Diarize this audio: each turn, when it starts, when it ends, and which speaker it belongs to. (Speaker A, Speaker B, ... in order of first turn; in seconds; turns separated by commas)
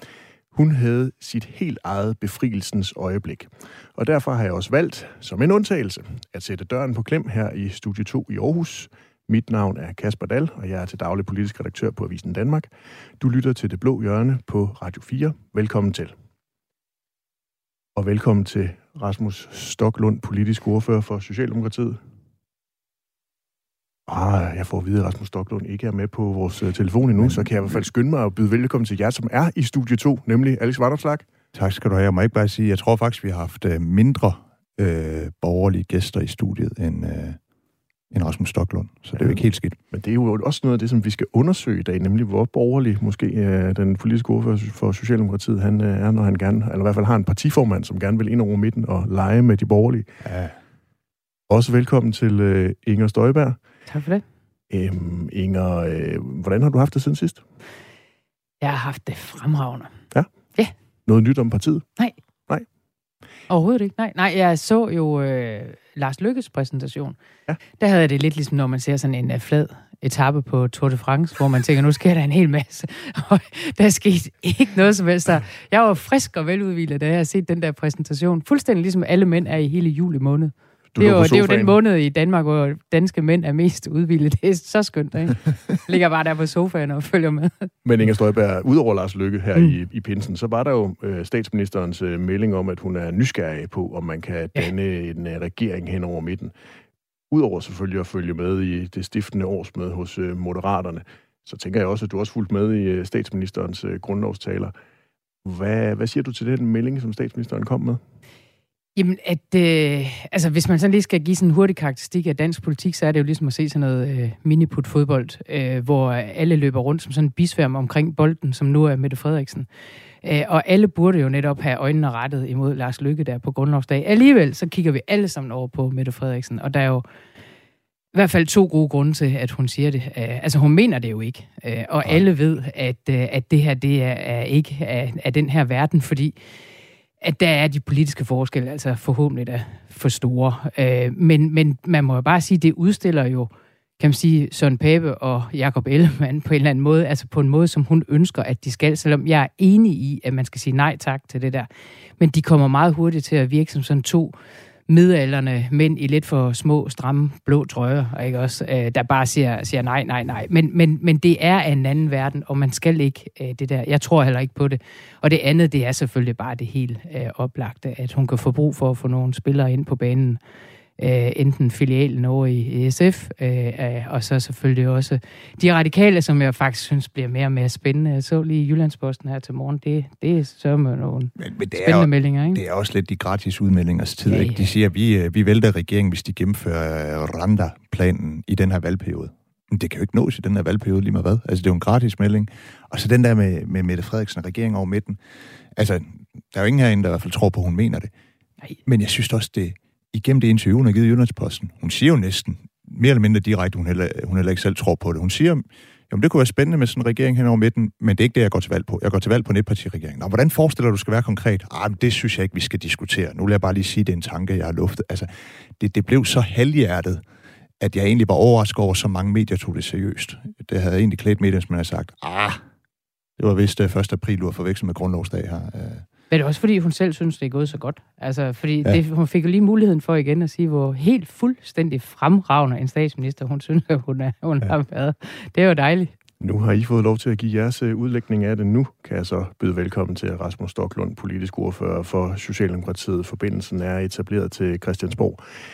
Speaker A: 0.5-16.1, Speaker A: 17.9-22.0, Speaker A: 24.1-31.2, Speaker B: 27.2-27.8, Speaker B: 31.5-37.4, Speaker B: 38.1-39.8, Speaker A: 39.2-50.0, Speaker B: 50.2-50.5, Speaker A: 51.5-53.6, Speaker C: 53.9-54.2, Speaker A: 54.7-57.4, Speaker C: 58.6-59.9, Speaker A: 61.0-61.9, Speaker C: 63.5-67.2, Speaker C: 67.8-87.7, Speaker A: 80.9-81.8, Speaker A: 87.8-96.5, Speaker A: 97.3-104.7, Speaker A: 105.4-108.0, Speaker C: 109.0-119.7, Speaker C: 120.2-127.0, Speaker C: 128.1-136.3, Speaker C: 137.2-154.3, Speaker C: 154.9-170.4, Speaker C: 171.0-182.6, Speaker B: 181.4-195.2, Speaker C: 184.3-184.7, Speaker B: 195.7-198.1, Speaker B: 198.8-217.2, Speaker B: 217.8-222.6, Speaker B: 223.4-226.1, Speaker C: 226.3-236.1, Speaker A: 236.4-245.4